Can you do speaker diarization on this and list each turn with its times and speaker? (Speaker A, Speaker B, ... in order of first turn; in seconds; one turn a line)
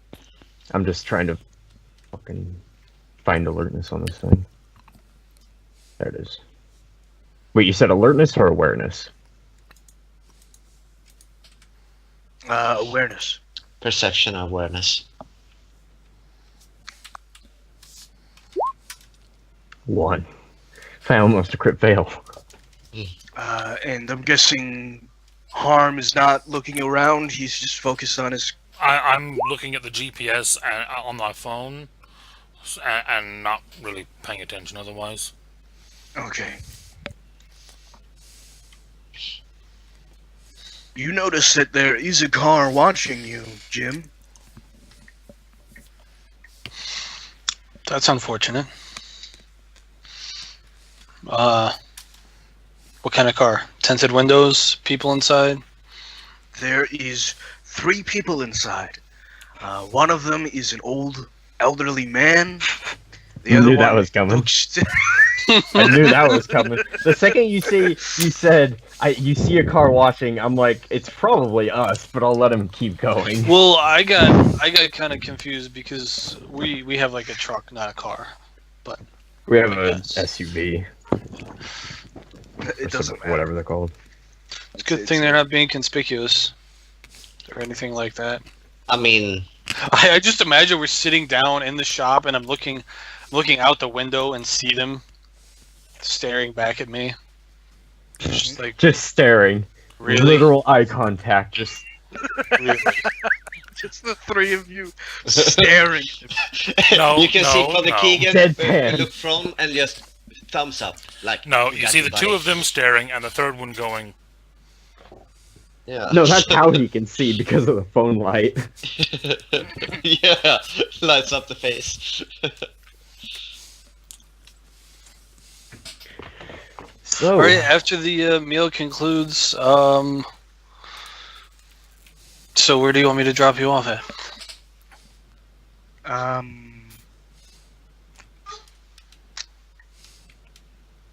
Speaker A: 0.7-1.4
Speaker A: 2.1-2.6
Speaker A: 3.2-4.5
Speaker A: 6.0-6.4
Speaker A: 7.5-9.1
Speaker B: 12.5-13.4
Speaker C: 13.8-15.0
Speaker A: 19.9-20.3
Speaker A: 21.0-22.2
Speaker B: 23.4-28.5
Speaker D: 28.8-31.9
Speaker D: 32.6-35.3
Speaker B: 36.1-36.6
Speaker B: 40.9-44.1
Speaker E: 47.9-48.7
Speaker E: 51.3-51.7
Speaker E: 53.0-55.6
Speaker B: 56.5-59.0
Speaker B: 59.6-62.7
Speaker B: 63.4-67.0
Speaker A: 63.5-64.5
Speaker E: 65.5-66.2
Speaker A: 65.7-73.5
Speaker E: 73.4-78.3
Speaker A: 79.5-80.8
Speaker E: 79.7-80.2
Speaker B: 82.6-83.4
Speaker A: 82.8-83.9
Speaker E: 84.8-86.5
Speaker B: 84.8-85.4
Speaker E: 87.5-88.4
Speaker C: 88.9-89.5
Speaker E: 89.8-95.0
Speaker E: 96.0-97.2
Speaker B: 98.2-98.6
Speaker E: 98.3-98.8
Speaker A: 98.8-101.8
Speaker E: 100.0-100.5
Speaker E: 102.6-103.0
Speaker B: 103.8-106.4
Speaker C: 105.3-105.7
Speaker C: 106.4-112.5
Speaker D: 106.9-108.2
Speaker A: 108.2-109.1
Speaker D: 111.4-114.1
Speaker C: 115.9-116.7
Speaker A: 116.1-118.6
Speaker C: 119.0-122.5
Speaker A: 127.0-127.7
Speaker E: 127.3-130.2
Speaker E: 132.5-134.0
Speaker B: 136.0-137.0